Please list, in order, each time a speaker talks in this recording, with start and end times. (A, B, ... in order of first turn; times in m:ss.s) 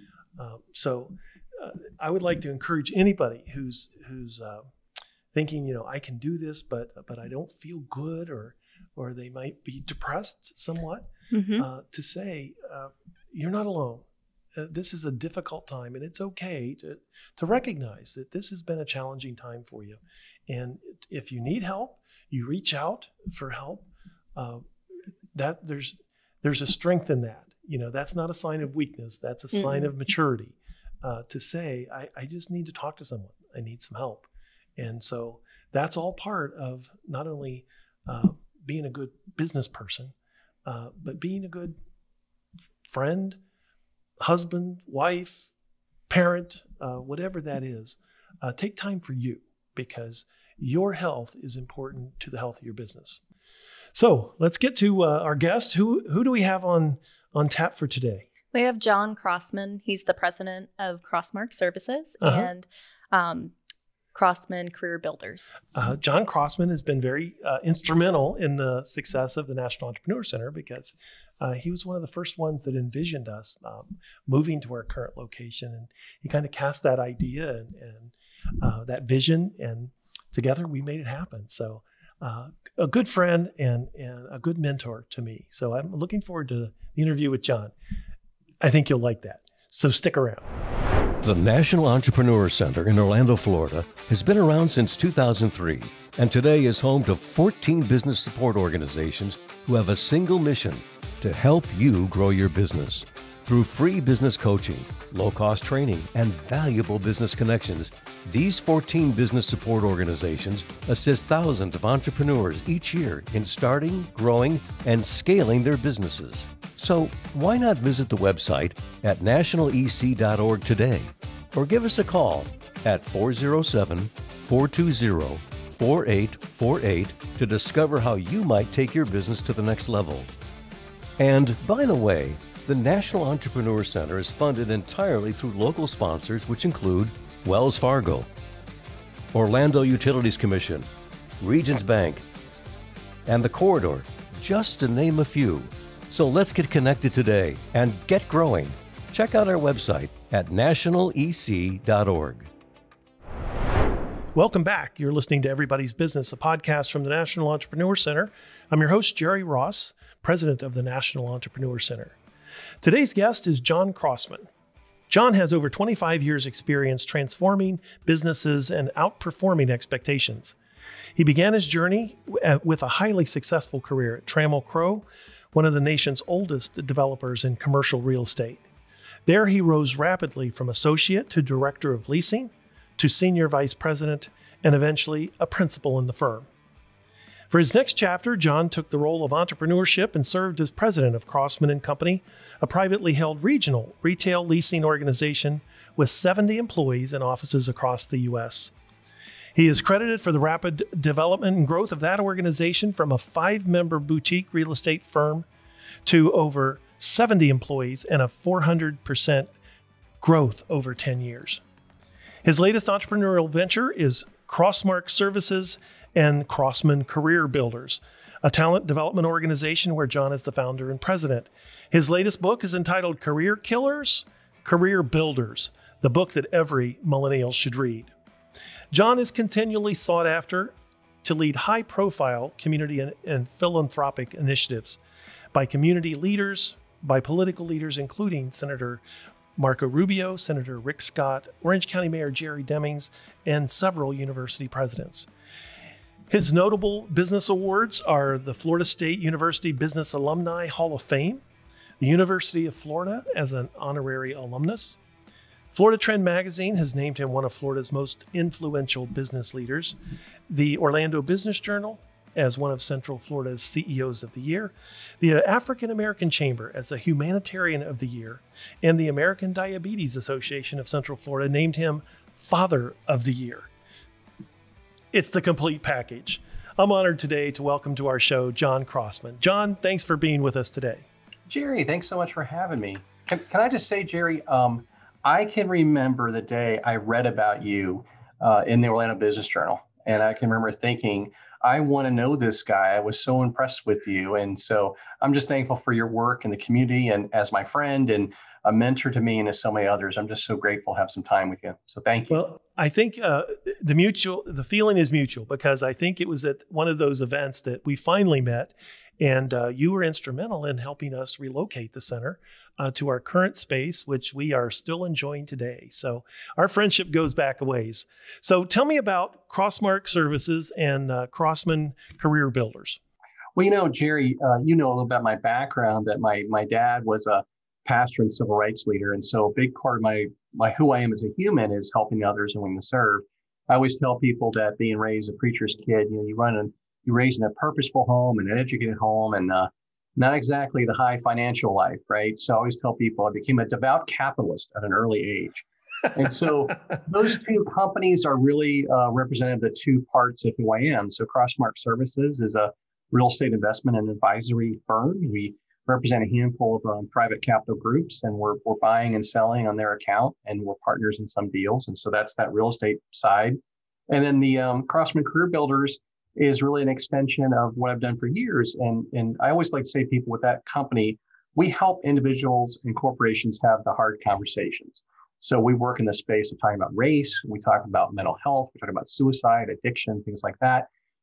0:00.4-0:04.7 A
0:05.3-0:24.6 A
0:11.3-0:11.7 B
0:25.4-0:40.1 A
0:29.5-0:29.9 B
0:40.7-0:41.8 A
0:42.9-0:43.4 A
0:44.2-0:45.5 A
0:46.1-0:53.2 A
0:53.9-0:58.3 A
0:58.5-1:03.5 B
1:02.2-1:02.5 A
1:04.1-1:05.6 B
1:05.7-1:27.7 A
1:28.6-1:30.5 A
1:31.2-2:10.3 C
2:11.2-2:18.3 C
2:19.3-2:20.9 C
2:21.4-2:22.2 C
2:23.3-2:32.5 C
2:34.3-2:42.2 A
2:42.8-2:44.5 A
2:45.1-2:50.6 A
2:51.2-2:58.7 A
2:59.3-3:06.5 A
3:07.5-3:18.7 A
3:19.6-3:25.5 A
3:26.1-3:29.5 A
3:30.2-3:31.6 A
3:32.4-3:48.1 A
3:48.9-3:55.0 A
3:55.5-3:59.0 A
3:59.6-4:05.3 A
4:06.3-4:11.4 A
4:12.0-4:15.0 A
4:15.7-4:20.0 A
4:20.5-4:33.7 A
4:35.1-4:41.1 A
4:41.5-5:02.5 D
5:02.3-5:23.0 A
5:23.6-6:03.6 D
6:04.1-6:20.9 D